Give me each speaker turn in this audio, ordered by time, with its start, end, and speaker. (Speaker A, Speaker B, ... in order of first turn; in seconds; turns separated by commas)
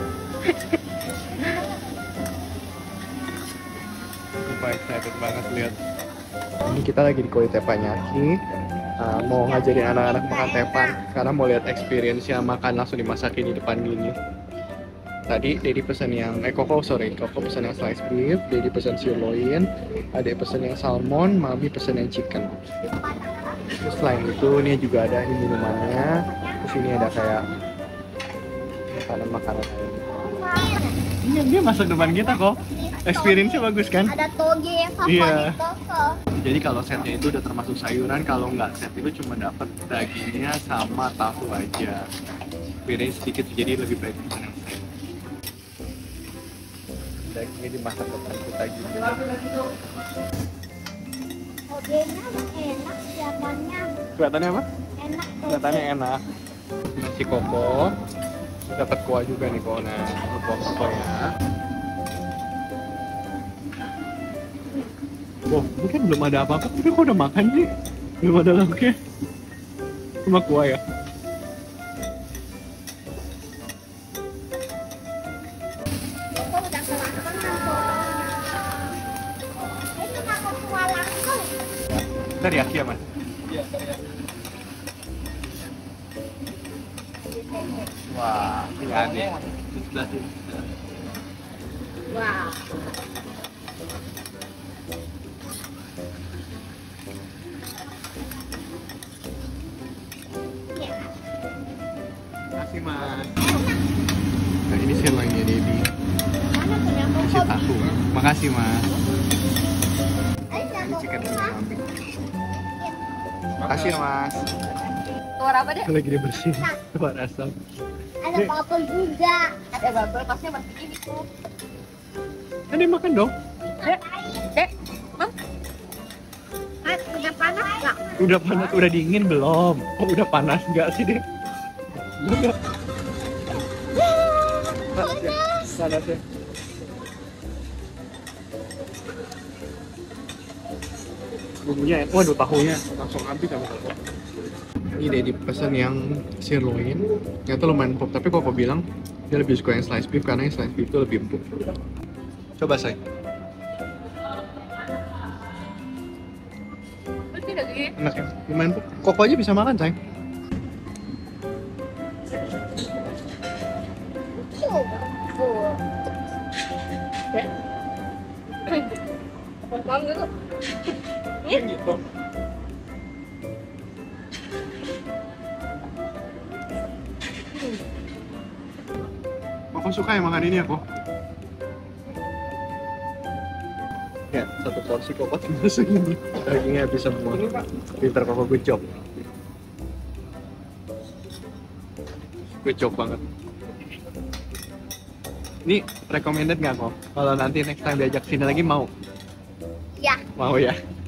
Speaker A: 4.4-5.8, Speaker A: 6.7-8.4, Speaker A: 9.0-14.1, Speaker B: 9.4-11.0, Speaker A: 15.3-22.6, Speaker A: 23.8-27.4, Speaker B: 26.2-27.3, Speaker A: 28.9-30.1, Speaker B: 30.2-31.0, Speaker A: 31.2-34.1, Speaker B: 32.1-36.2, Speaker A: 35.0-35.6, Speaker A: 36.4-42.0, Speaker A: 42.8-44.9, Speaker A: 47.3-49.4, Speaker B: 51.7-53.9, Speaker A: 54.1-54.6, Speaker B: 55.0-55.9, Speaker A: 55.5-56.2, Speaker A: 57.0-57.9, Speaker A: 58.7-61.3, Speaker A: 65.5-67.7, Speaker A: 68.2-69.0, Speaker A: 70.2-70.8, Speaker B: 76.4-78.4, Speaker B: 79.9-81.6, Speaker A: 82.4-83.0, Speaker B: 87.4-87.9, Speaker A: 88.0-90.6, Speaker B: 92.1-92.7, Speaker B: 100.7-101.1, Speaker A: 102.6-103.4, Speaker B: 103.4-103.7, Speaker A: 104.7-105.9, Speaker B: 106.4-107.8, Speaker A: 107.2-108.9, Speaker B: 110.5-111.6, Speaker A: 110.8-111.8, Speaker B: 112.6-113.1, Speaker A: 113.6-114.5, Speaker C: 115.4-115.9, Speaker A: 115.8-117.5, Speaker B: 116.5-116.8, Speaker B: 118.2-119.7, Speaker C: 119.7-121.3, Speaker A: 122.7-123.3, Speaker B: 123.8-124.5, Speaker C: 123.8-125.3, Speaker C: 126.8-128.1, Speaker B: 126.9-128.6, Speaker A: 128.2-131.2, Speaker A: 132.2-132.6, Speaker B: 133.9-135.7, Speaker A: 134.9-136.2, Speaker A: 141.6-144.0, Speaker A: 145.0-151.4, Speaker A: 152.6-153.0, Speaker C: 157.3-157.9, Speaker A: 157.9-160.0, Speaker B: 164.5-165.8, Speaker C: 169.7-170.3, Speaker C: 171.4-171.8, Speaker A: 179.7-180.8, Speaker A: 184.3-187.5, Speaker A: 188.0-188.8, Speaker A: 192.6-193.2, Speaker A: 195.6-198.9, Speaker B: 200.0-200.2, Speaker A: 200.3-200.8